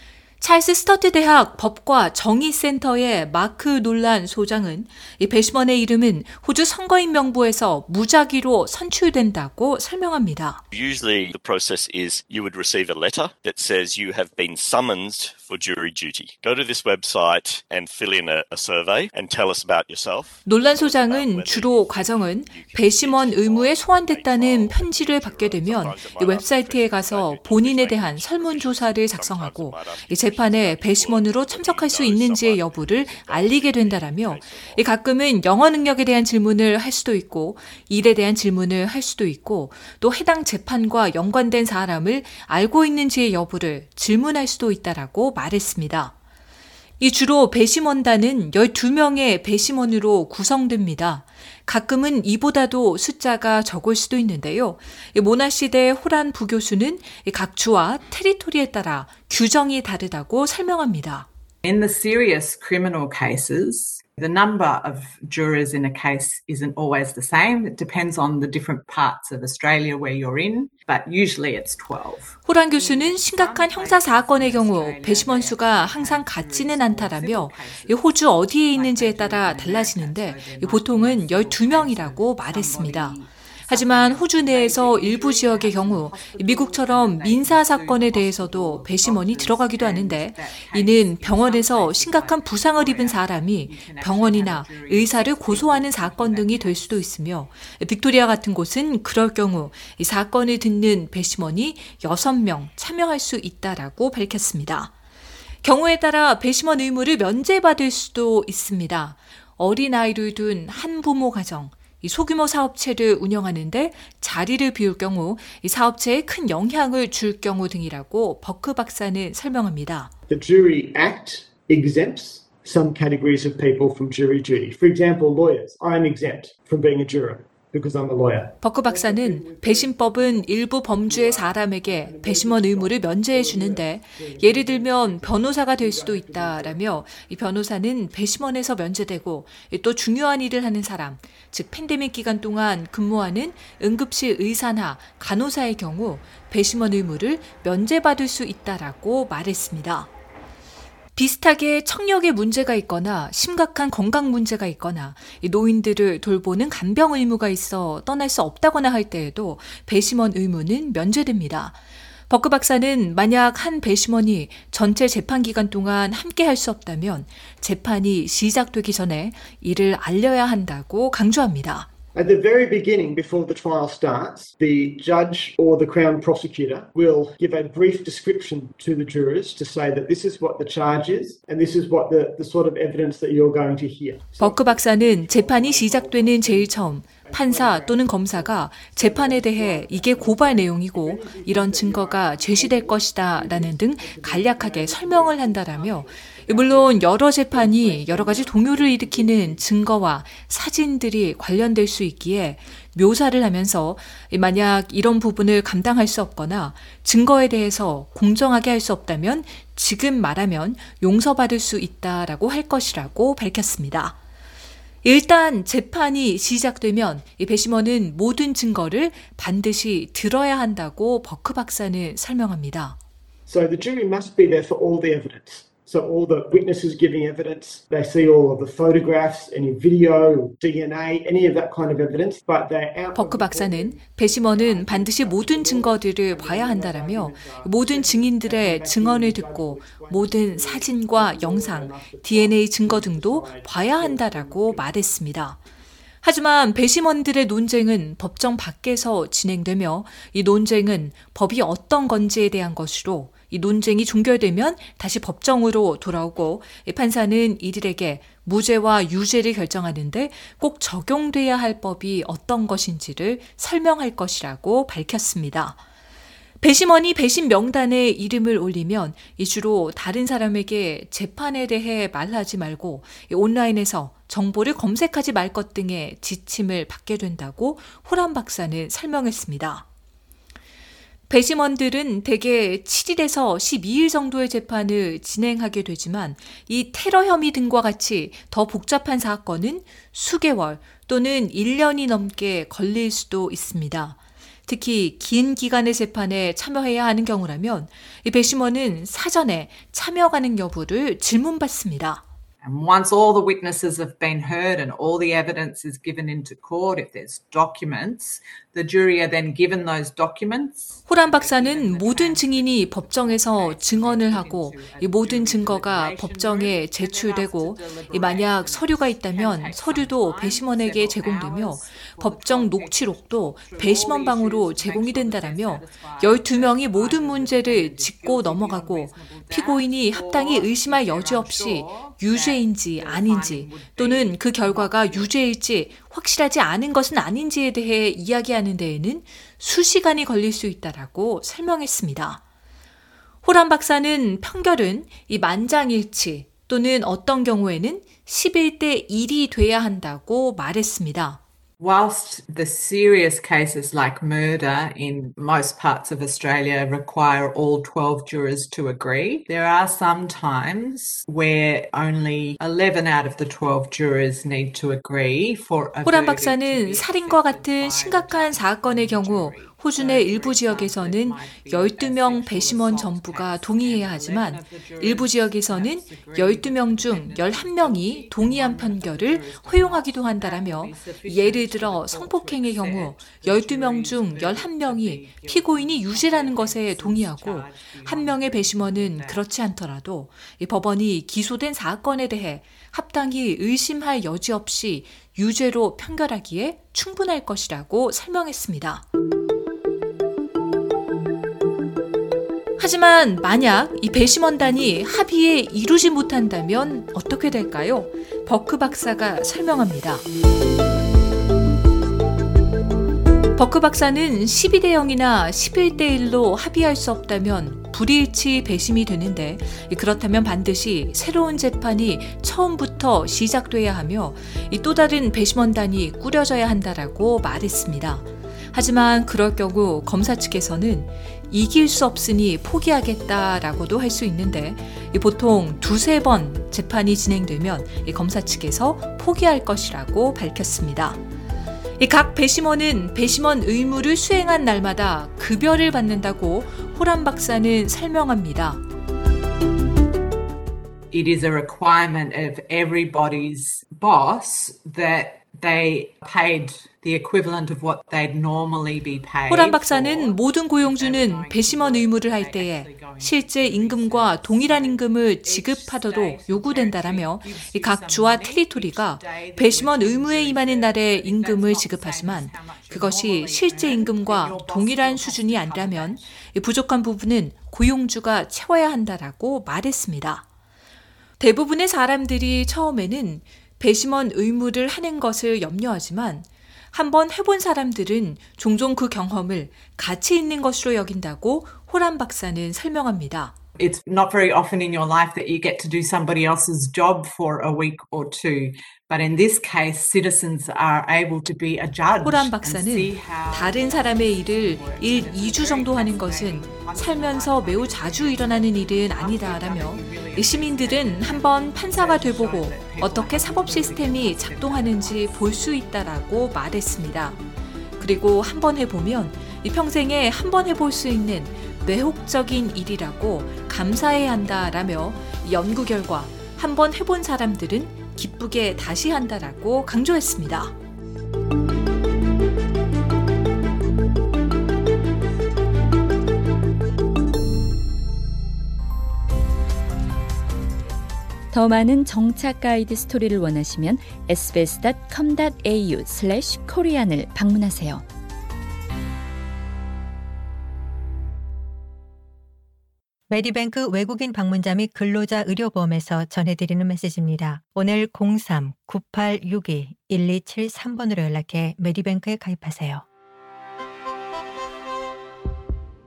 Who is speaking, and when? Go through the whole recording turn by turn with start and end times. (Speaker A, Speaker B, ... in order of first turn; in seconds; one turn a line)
Speaker A: 0.4-10.6
Speaker B: 10.7-34.8
Speaker A: 20.4-46.1
Speaker A: 47.0-61.3
Speaker C: 61.6-78.0
Speaker A: 72.4-104.9
Speaker C: 78.7-97.0
Speaker A: 105.6-120.1
Speaker D: 120.3-136.8
Speaker A: 128.6-150.1
Speaker A: 151.1-161.8
Speaker A: 162.3-171.9
Speaker D: 172.1-199.7
Speaker A: 184.4-214.2
Speaker A: 215.0-223.0
Speaker D: 223.5-244.9
Speaker A: 233.1-245.6
Speaker A: 246.2-265.8
Speaker A: 266.6-279.8
Speaker A: 281.3-302.2
Speaker C: 302.6-335.5
Speaker A: 311.1-342.4
Speaker A: 343.4-351.4
Speaker C: 351.8-389.4
Speaker A: 366.0-399.0
Speaker A: 402.8-410.2
Speaker A: 413.5-441.2
Speaker A: 442.0-448.8
Speaker C: 451.1-476.3
Speaker A: 459.5-480.4
Speaker A: 481.4-493.5
Speaker C: 493.8-515.4
Speaker A: 502.2-517.4
Speaker A: 518.0-530.7
Speaker E: 541.5-548.0
Speaker F: 553.3-563.0